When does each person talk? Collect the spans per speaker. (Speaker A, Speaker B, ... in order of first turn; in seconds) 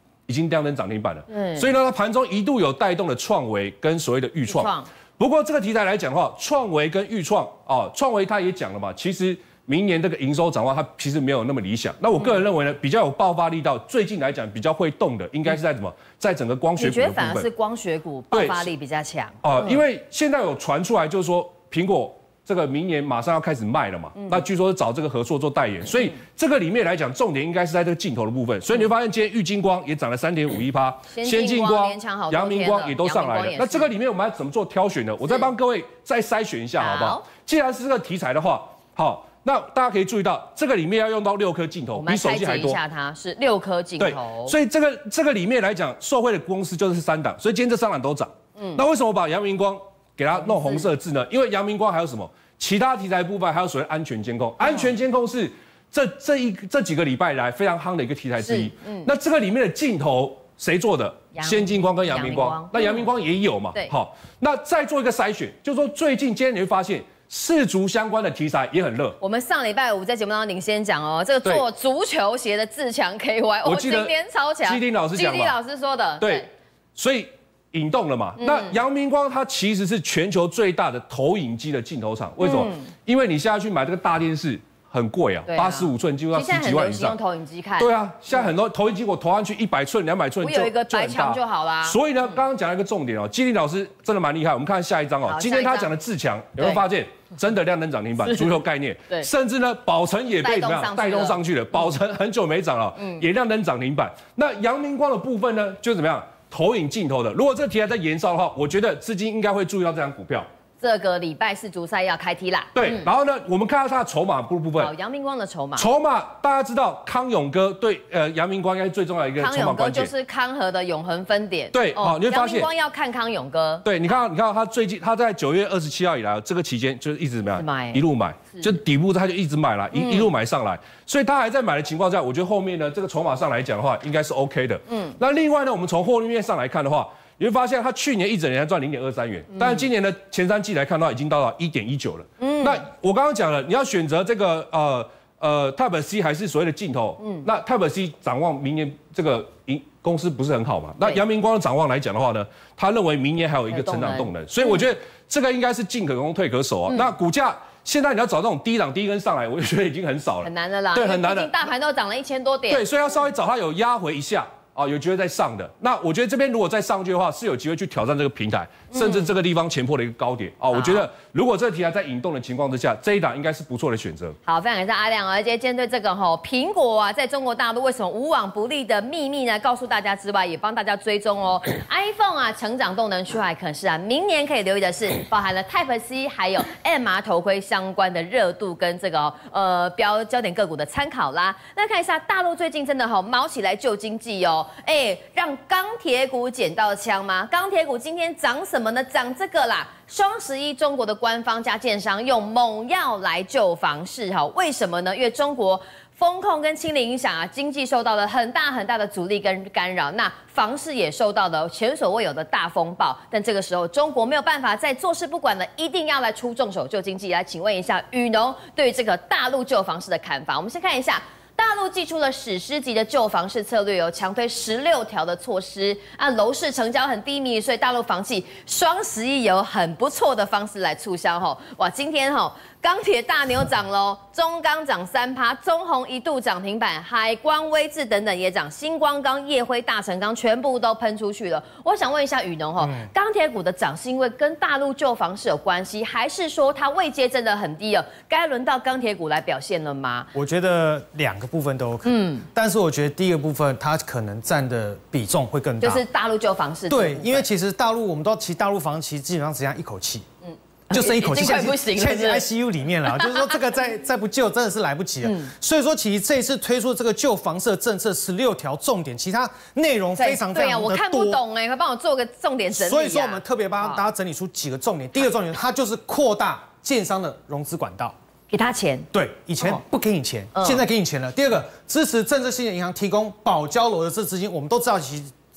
Speaker A: 0.3-17.5, 18.3-18.7, 19.4-42.8, 44.0-69.2, 73.7-74.1, 74.6-75.6, 76.2-87.2, 87.8-110.5, 112.8-114.9, 115.8-120.1, 121.7-122.7, 123.8-161.6, 162.7-174.4
Speaker B: 1.3-1.7, 4.5-4.9, 16.8-19.8, 24.2-24.4, 31.1-33.9, 36.8-37.2, 42.0-44.5, 50.4-50.9, 58.4-59.1, 61.4-63.0, 69.2-76.5, 78.4-78.8, 82.4-82.9, 85.5-88.4, 90.4-92.3, 95.3-95.9, 96.6-96.8, 100.4-101.4, 103.0-103.2, 110.8-113.1, 114.8-115.9, 119.4-124.2, 127.6-128.8, 129.9-130.3, 134.9-135.2, 139.5-139.8, 142.4-142.8, 153.7-154.8, 160.4-162.8, 168.9-169.3, 170.7-171.1, 174.5-250.3, 252.1-252.5, 255.8-257.4, 260.4-262.5, 263.1-263.4, 265.2-265.5, 270.2-274.0, 278.5-279.1, 280.6-280.9
Speaker C: 242.8-243.1, 250.3-256.0, 256.9-260.3, 260.9-271.4, 272.8-278.2, 279.1-285.3